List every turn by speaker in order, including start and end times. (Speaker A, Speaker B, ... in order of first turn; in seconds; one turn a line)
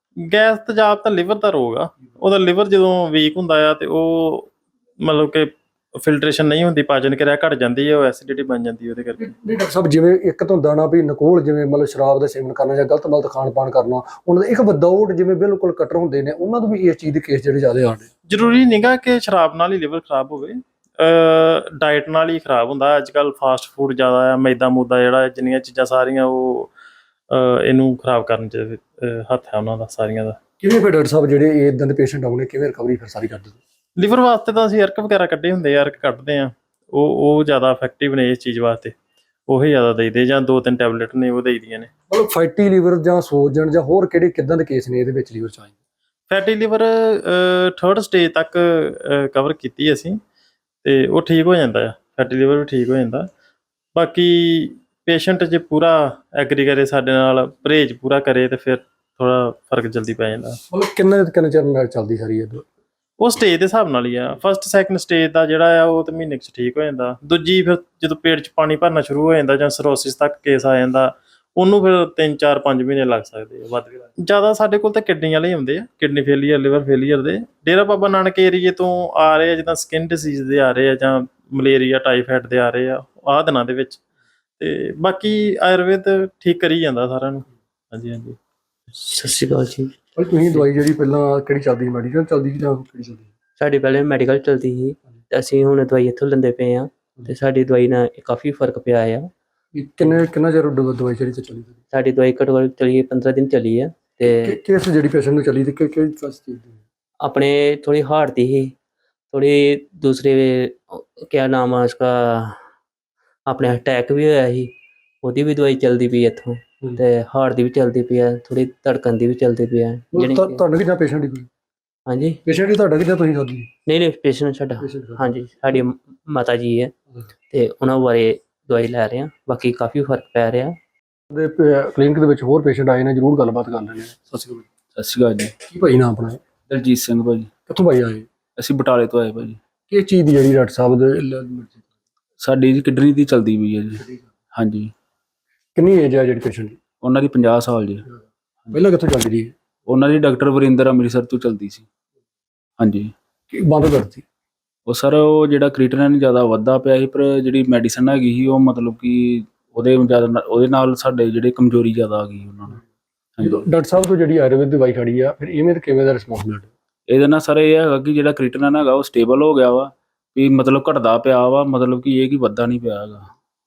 Speaker A: 0.2-4.5
Speaker A: 5.0-9.3
Speaker B: 9.2-18.1
Speaker A: 18.3-26.7
Speaker A: 27.3-30.4
Speaker B: 30.6-33.6
Speaker A: 34.0-39.0
Speaker A: 39.5-41.9
Speaker B: 42.1-45.7
Speaker A: 46.3-50.2
Speaker A: 50.8-53.3
Speaker A: 54.0-60.6
Speaker B: 60.7-62.6
Speaker A: 63.2-84.0
Speaker A: 84.6-88.4
Speaker C: 89.0-89.9
Speaker B: 90.2-93.3
Speaker C: 93.6-99.3
Speaker B: 99.7-101.8
Speaker C: 101.9-104.6
Speaker B: 104.2-106.8
Speaker C: 107.2-108.8
Speaker C: 109.3-112.6
Speaker C: 113.5-120.6
Speaker B: 120.1-121.5
Speaker C: 122.1-122.4
Speaker B: 122.4-123.7
Speaker C: 123.9-126.9
Speaker B: 124.8-125.3
Speaker C: 127.5-130.8
Speaker B: 131.3-134.7
Speaker D: 134.9-135.5
Speaker B: 135.7-136.4
Speaker D: 136.7-137.5
Speaker B: 137.7-138.3
Speaker D: 138.6-139.6
Speaker B: 139.9-141.9
Speaker D: 142.4-144.0
Speaker D: 144.5-144.9
Speaker B: 145.8-146.8
Speaker D: 147.0-148.0
Speaker B: 148.7-149.5
Speaker D: 149.9-151.9
Speaker D: 152.8-153.1
Speaker B: 153.5-154.2
Speaker D: 154.9-162.8
Speaker D: 163.4-163.7
Speaker B: 163.4-166.7
Speaker D: 167.1-173.3